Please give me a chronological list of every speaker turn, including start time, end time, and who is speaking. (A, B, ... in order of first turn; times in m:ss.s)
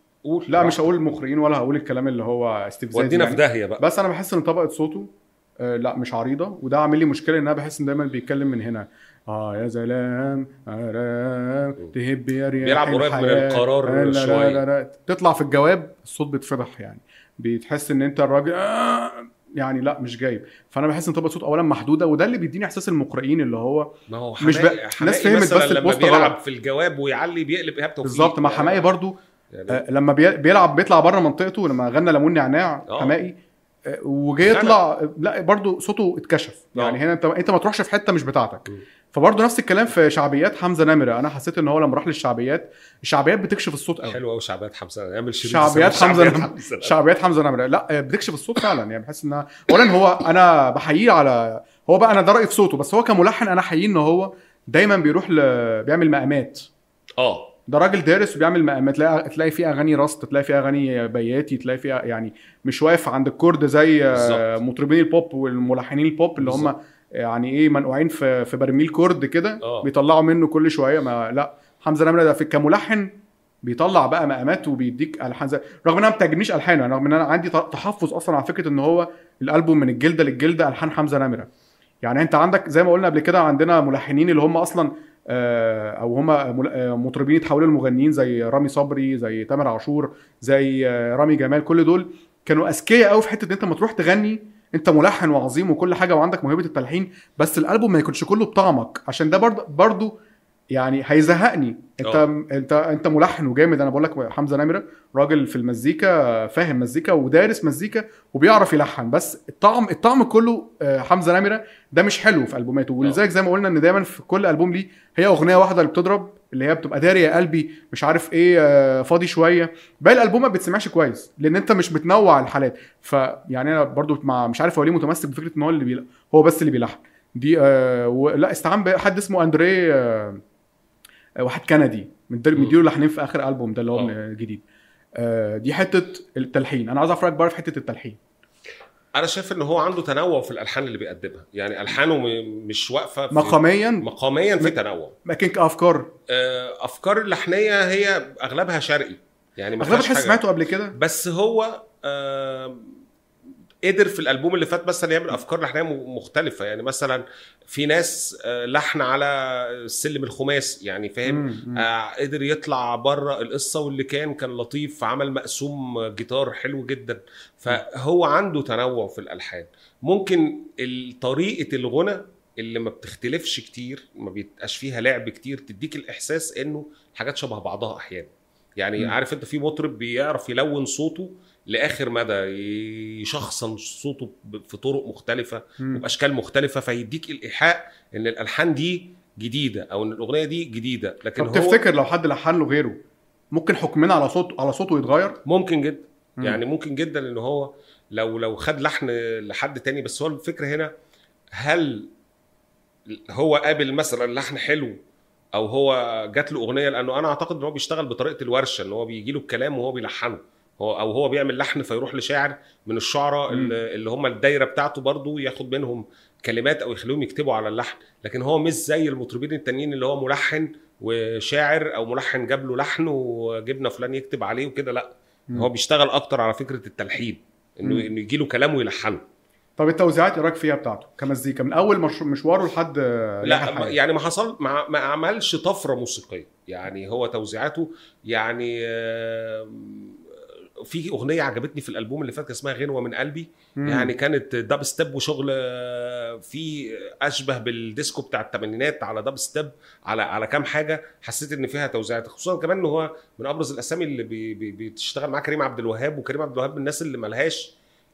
0:00.2-0:01.0 A
0:00.5-0:05.1 B
0:02.9-0:03.8 A
0:05.6-0:26.3 B
0:12.6-0:14.6 A
0:24.1-0:28.9 A
0:28.0-0:44.2 B
0:29.5-0:29.8 A
0:32.9-0:33.1 A
0:34.4-0:34.8 A
0:36.7-0:37.0 A
0:44.0-0:46.9 A
0:45.4-0:56.7 B
0:57.2-0:57.5 A
0:57.7-1:13.1 B
1:04.1-1:04.4 A
1:06.4-1:06.7 A
1:09.6-1:09.9 A
1:13.6-1:21.5 B
1:22.0-1:40.1 B
1:40.7-2:10.4 B
2:11.4-2:14.6 B
2:15.2-2:18.2 B
2:19.2-2:25.2 A
2:23.3-2:24.0 B
2:24.6-2:26.1 B
2:26.3-2:30.4 A
2:29.8-2:31.0 B
2:30.9-2:32.9 A
2:33.8-3:11.8 A
2:41.2-2:41.9 B
3:11.4-3:13.0 B
3:13.5-3:15.4 B
3:15.4-3:20.9 A
3:21.6-3:22.1 A
3:23.1-3:25.0 A
3:25.5-3:49.2 A
3:33.5-3:33.8 B
3:49.8-3:54.0 B
3:53.4-4:17.7 A
4:03.8-4:04.1 B